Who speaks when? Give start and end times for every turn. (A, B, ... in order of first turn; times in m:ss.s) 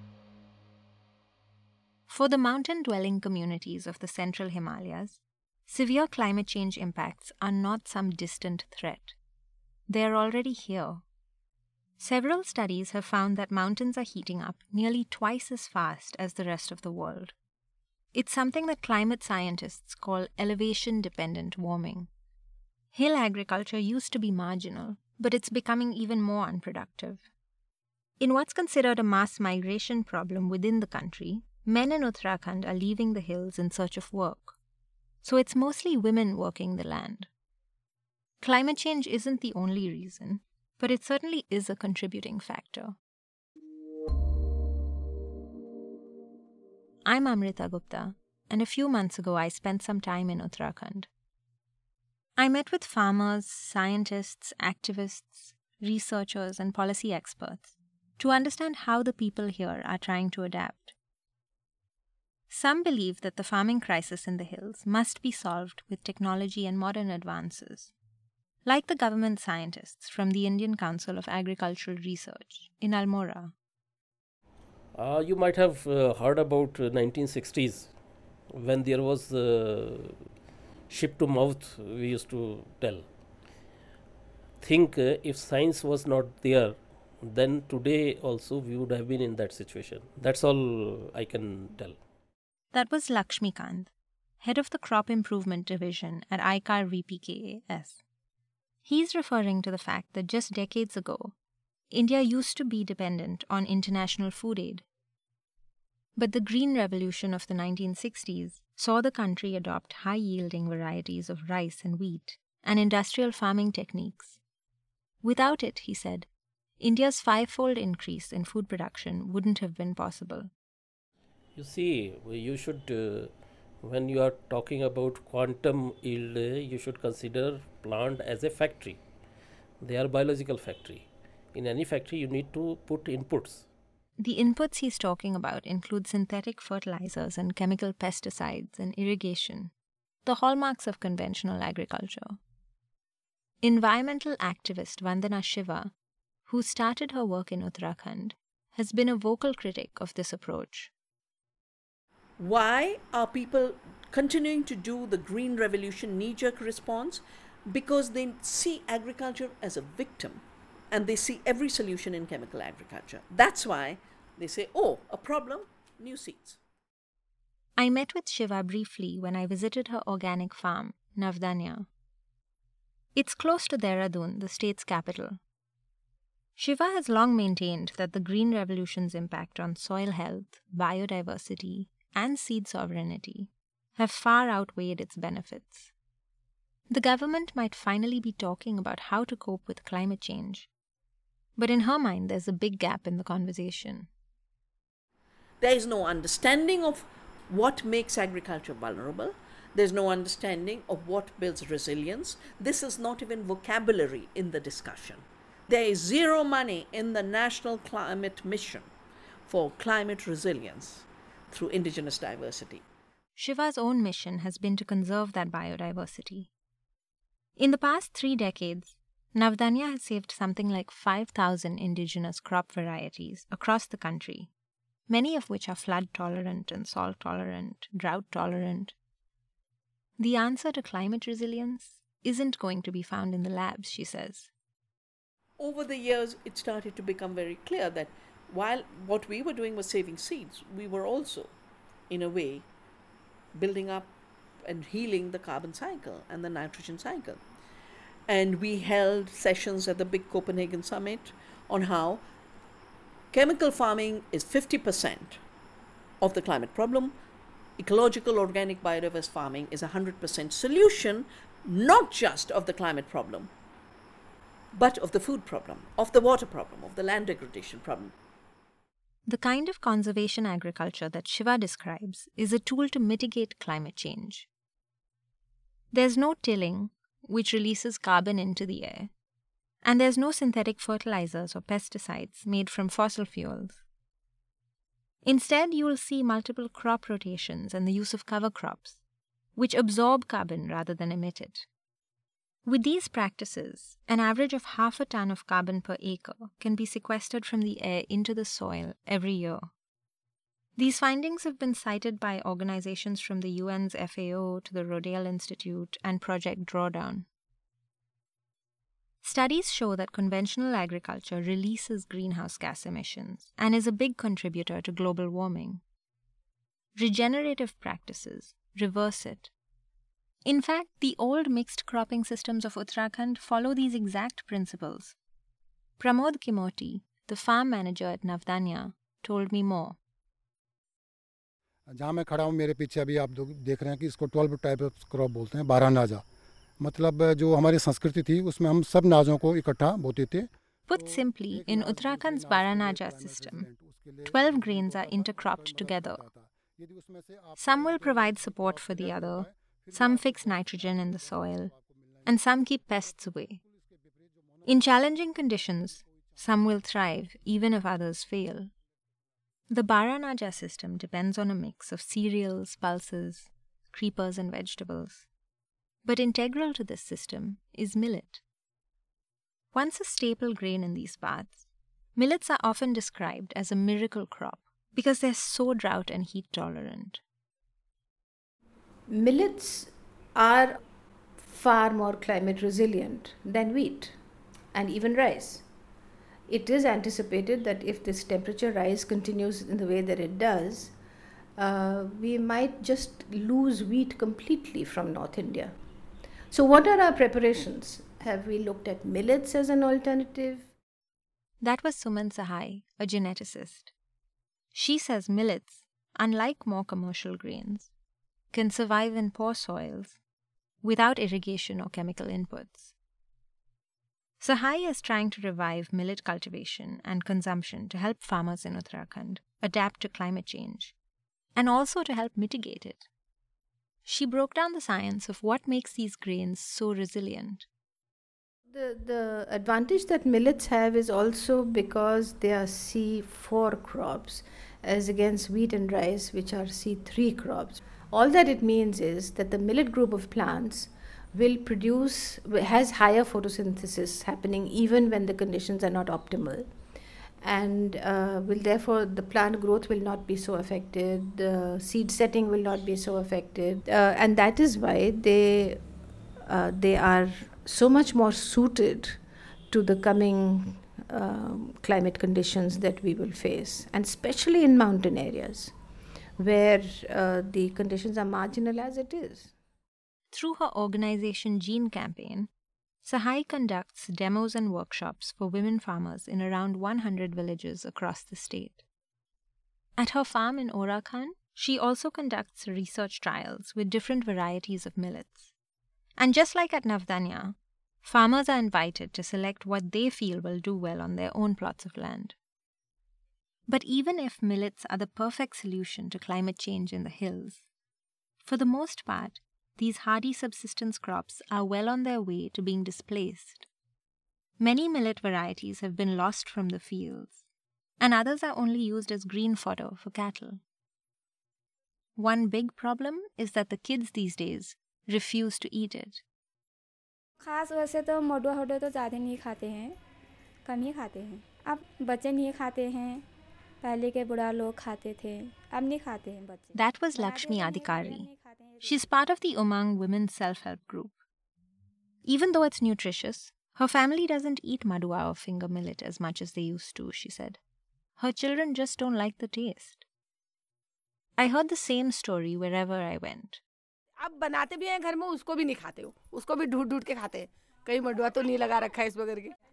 0:02.1-0:09.2 A
0:09.9-0:11.0 A
0:12.0-0:17.3 A
0:18.1-0:22.1 A
0:22.9-0:27.2 A
0:28.2-0:34.6 A
0:35.2-0:37.3 A
0:38.4-0:43.0 A
0:47.0-0:51.1 A
0:52.4-1:00.9 A
1:02.5-1:07.9 A
1:08.6-1:13.5 A
1:14.9-1:17.9 B
1:18.5-1:20.2 B
1:20.9-1:23.0 B
1:24.6-1:32.0 B
1:32.7-1:33.9 A
1:34.4-1:38.0 A
1:38.8-1:41.3 A
1:41.9-1:44.8 A
1:46.2-1:54.4 A
1:55.2-1:56.3 A
1:56.8-2:00.5 A
2:01.6-2:03.3 B
2:03.8-2:09.0 B
2:09.8-2:13.6 B
2:14.2-2:19.7 A
2:20.2-2:22.4 A
2:23.6-2:25.9 A
2:26.5-2:30.9 A
2:32.4-2:46.6 C
2:47.8-2:51.9 A
2:53.1-2:55.4 A
2:56.6-3:05.9 A
3:06.9-3:10.7 A
3:11.6-3:14.1 A
3:15.6-3:28.9 C
3:29.4-3:32.8 C
3:33.4-3:36.5 A
3:37.6-3:44.5 A
3:45.1-3:48.9 A
3:50.2-3:54.5 A
3:55.6-4:01.5 C
4:02.1-4:02.7 C
4:03.5-4:04.1 C
4:04.6-4:07.4 C
4:08.3-4:12.2 C
4:13.3-4:15.4 C
4:16.2-4:17.1 C
4:17.8-4:23.5 C
4:24.7-4:28.1 C
4:29.3-4:34.5 A
4:35.9-4:39.1 A
4:39.8-4:43.8 A
4:45.2-4:49.0 A
4:49.6-4:51.6 A
4:52.6-4:59.7 A
5:00.8-5:07.3 A
5:09.2-5:15.8 A
5:17.0-5:19.5 A
5:20.4-5:25.2 A
5:26.0-5:30.0 A
5:32.0-5:36.2 D
5:36.9-5:40.4 D
5:40.9-5:43.7 A
5:44.2-5:46.2 A
5:47.6-5:51.7 A
5:52.2-5:53.6 A
5:54.6-5:58.7 A
5:59.7-6:05.2 A
6:06.0-6:08.4 A
6:09.7-6:11.6 A
6:12.2-6:17.2 A
6:19.1-6:20.8 E
6:21.4-6:24.1 E
6:24.7-6:25.6 E
6:26.5-6:30.9 E
6:31.6-6:35.7 E
6:36.5-6:40.7 E
6:41.6-6:43.9 A
6:44.7-6:47.9 A
6:48.5-6:50.2 A
6:50.8-6:52.9 A
6:54.4-7:00.9 A
7:01.6-7:03.0 A
7:04.0-7:07.6 A
7:08.7-7:26.7 E
7:27.4-7:35.8 E
7:36.4-7:39.2 E
7:39.7-7:45.7 E
7:46.4-7:49.5 E
7:50.3-7:52.5 A
7:53.0-7:58.8 A
8:00.0-8:05.5 A
8:06.2-8:12.3 A
8:13.7-8:17.6 A
8:18.4-8:23.7 A
8:24.6-8:27.4 A
8:28.0-8:30.6 A
8:32.2-8:36.2 A
8:37.4-8:40.0 F
8:40.6-8:43.2 F
8:43.8-8:49.2 F
8:46.7-8:48.3 A
8:48.8-8:51.2 A
8:52.2-8:57.6 A
8:58.2-9:00.0 A
9:01.4-9:03.6 A
9:04.2-9:09.5 G